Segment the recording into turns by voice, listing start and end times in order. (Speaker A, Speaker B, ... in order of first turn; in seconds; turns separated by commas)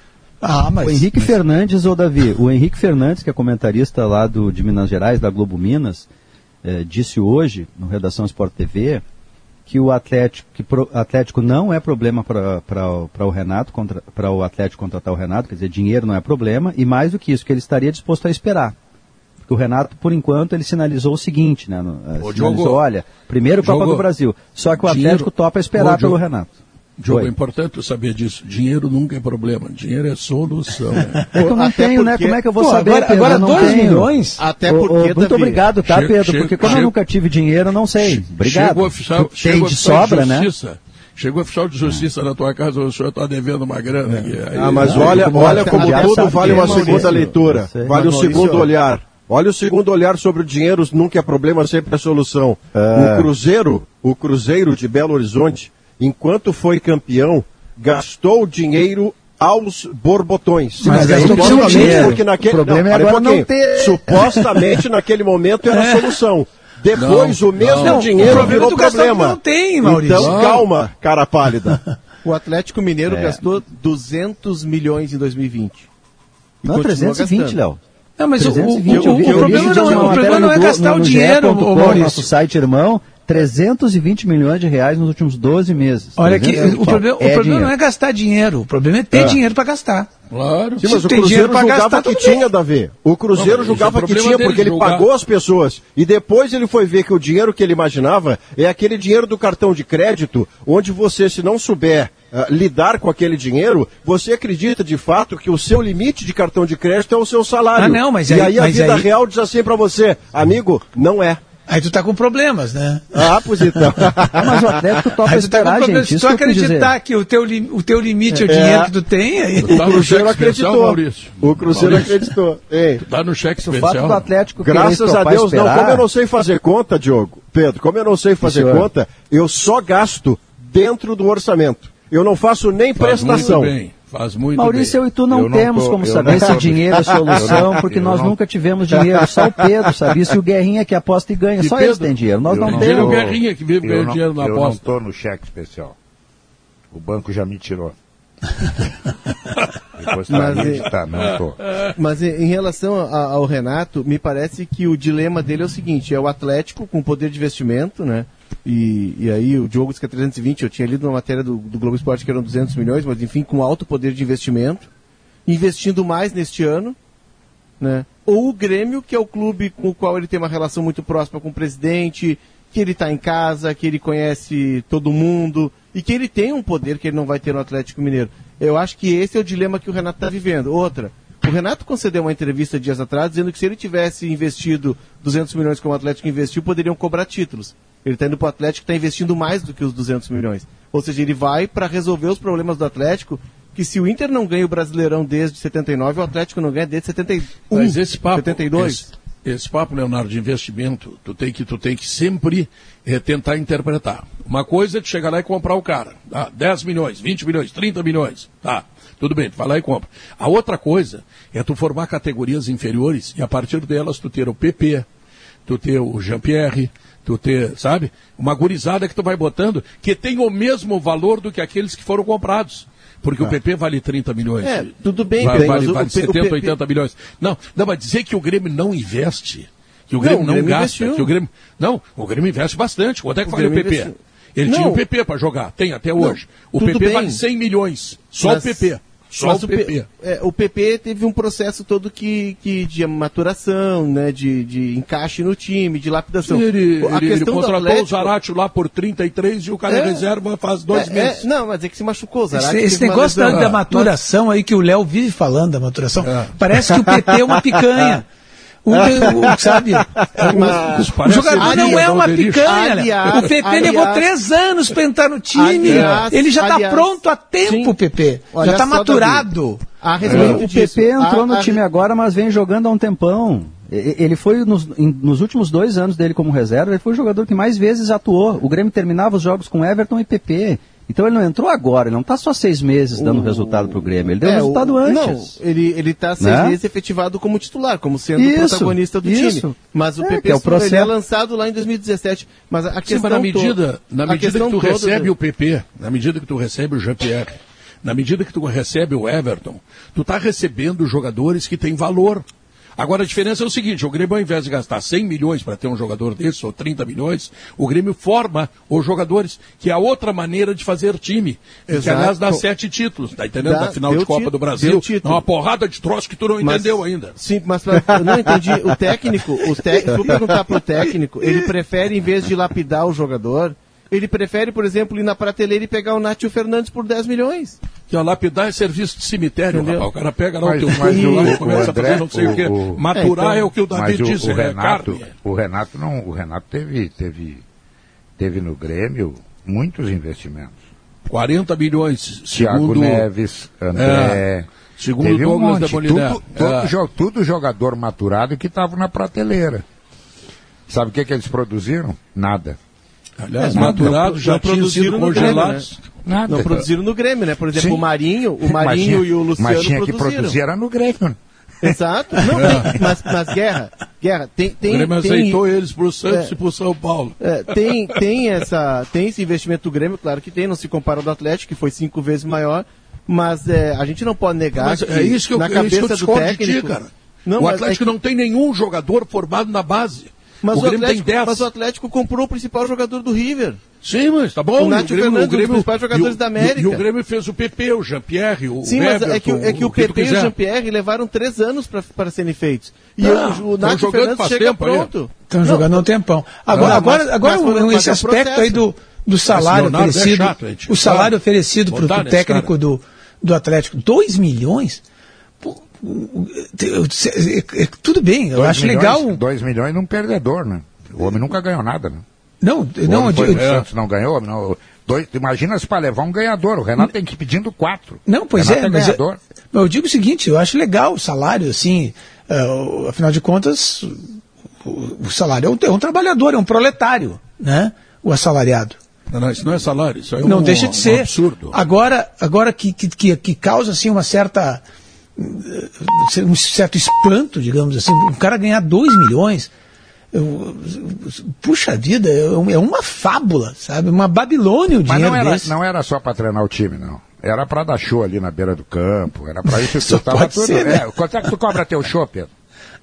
Speaker A: 0.4-1.3, Speaker B: 0.8-6.1, Speaker B: 6.6-9.0, Speaker B: 9.7-18.8, Speaker B: 19.4-26.5, Speaker C: 22.2-22.8, Speaker C: 23.6-24.1, Speaker C: 24.8-26.2, Speaker C: 27.0-31.3, Speaker B: 31.3-34.1, Speaker D: 31.3-32.4, Speaker A: 32.5-34.4, Speaker D: 33.1-33.8, Speaker D: 34.4-35.6, Speaker B: 34.6-40.5, Speaker C: 35.8-36.9, Speaker C: 38.0-45.8, Speaker E: 44.5-71.8, Speaker B: 44.8-48.7, Speaker D: 45.5-47.2, Speaker D: 47.9-48.7, Speaker B: 52.7-53.3, Speaker B: 60.8-64.4, Speaker A: 60.8-62.2, Speaker A: 65.7-66.2, Speaker C: 66.9-68.7, Speaker A: 67.8-70.4, Speaker C: 70.1-70.7, Speaker D: 72.2-75.9, Speaker B: 73.1-73.4, Speaker D: 76.6-77.6, Speaker B: 76.6-77.8, Speaker A: 78.2-82.3, Speaker B: 78.4-87.7, Speaker E: 78.9-80.6, Speaker A: 86.2-90.1, Speaker C: 90.3-90.8, Speaker E: 90.8-111.4, Speaker A: 90.8-92.4, Speaker C: 93.3-95.1, Speaker A: 107.8-109.1, Speaker A: 111.7-114.1, Speaker E: 113.1-115.0, Speaker B: 114.3-116.9, Speaker A: 115.2-119.8, Speaker E: 118.3-118.9, Speaker C: 119.6-122.3, Speaker E: 119.7-123.0, Speaker C: 123.0-124.3, Speaker B: 123.7-126.0, Speaker E: 124.6-133.7, Speaker B: 128.4-128.9, Speaker C: 132.9-135.0, Speaker B: 134.6-143.2, Speaker F: 135.3-138.3, Speaker C: 141.6-144.9, Speaker F: 142.5-145.9, Speaker F: 146.9-147.9, Speaker F: 149.9-151.6, Speaker D: 150.3-150.9, Speaker C: 150.4-151.9, Speaker D: 152.0-164.9, Speaker D: 165.4-166.9, Speaker D: 167.8-199.0, Speaker C: 197.7-215.1, Speaker C: 215.7-240.1, Speaker D: 224.6-226.7, Speaker D: 230.2-231.3, Speaker D: 233.4-235.0, Speaker D: 236.2-237.4, Speaker D: 238.4-248.3, Speaker C: 246.4-251.5, Speaker D: 249.9-250.2, Speaker D: 250.9-254.1, Speaker A: 252.5-258.2, Speaker C: 253.5-253.8, Speaker C: 256.2-256.5, Speaker A: 258.8-269.9, Speaker E: 259.0-260.6, Speaker D: 260.5-264.2, Speaker C: 260.5-262.7, Speaker D: 265.5-267.9, Speaker C: 265.9-266.3, Speaker D: 268.5-271.8, Speaker C: 270.2-270.6, Speaker B: 270.2-285.6, Speaker D: 283.2-295.3, Speaker B: 286.4-286.8, Speaker B: 288.4-291.1, Speaker C: 293.0-302.4, Speaker C: 303.0-317.4, Speaker D: 311.9-312.6, Speaker D: 313.6-315.4, Speaker D: 316.6-327.8, Speaker E: 320.1-320.6, Speaker C: 328.1-335.3, Speaker D: 329.7-330.1, Speaker F: 330.6-333.0, Speaker D: 330.9-332.5, Speaker D: 333.1-333.7, Speaker F: 333.8-337.6, Speaker F: 338.4-340.8, Speaker C: 341.3-343.2, Speaker F: 342.5-344.7, Speaker C: 343.9-344.4, Speaker C: 345.0-346.9, Speaker F: 345.2-349.8, Speaker F: 350.9-352.8, Speaker C: 353.4-356.0, Speaker D: 353.6-355.9, Speaker F: 353.7-354.2, Speaker F: 356.2-356.9, Speaker D: 356.4-360.6, Speaker F: 357.7-358.1, Speaker F: 358.6-363.0, Speaker D: 361.8-365.6, Speaker C: 362.5-362.9, Speaker C: 364.8-368.2, Speaker D: 366.3-366.5, Speaker D: 367.4-378.1, Speaker C: 374.7-381.6, Speaker D: 380.6-383.8, Speaker C: 384.0-390.5, Speaker D: 384.7-387.0, Speaker D: 388.8-396.1, Speaker C: 393.2-395.1, Speaker A: 395.5-405.0, Speaker D: 396.7-398.9, Speaker C: 396.7-397.0, Speaker C: 399.5-401.3, Speaker C: 401.9-402.7, Speaker A: 405.6-409.4, Speaker F: 408.5-412.2, Speaker A: 412.6-413.7, Speaker F: 413.0-419.4, Speaker C: 413.5-413.9, Speaker A: 418.2-419.2, Speaker A: 419.7-424.2, Speaker A: 424.8-429.0, Speaker C: 429.3-431.8, Speaker A: 430.4-434.8, Speaker A: 435.4-439.7, Speaker A: 440.3-445.7, Speaker F: 445.1-452.5, Speaker A: 449.6-451.0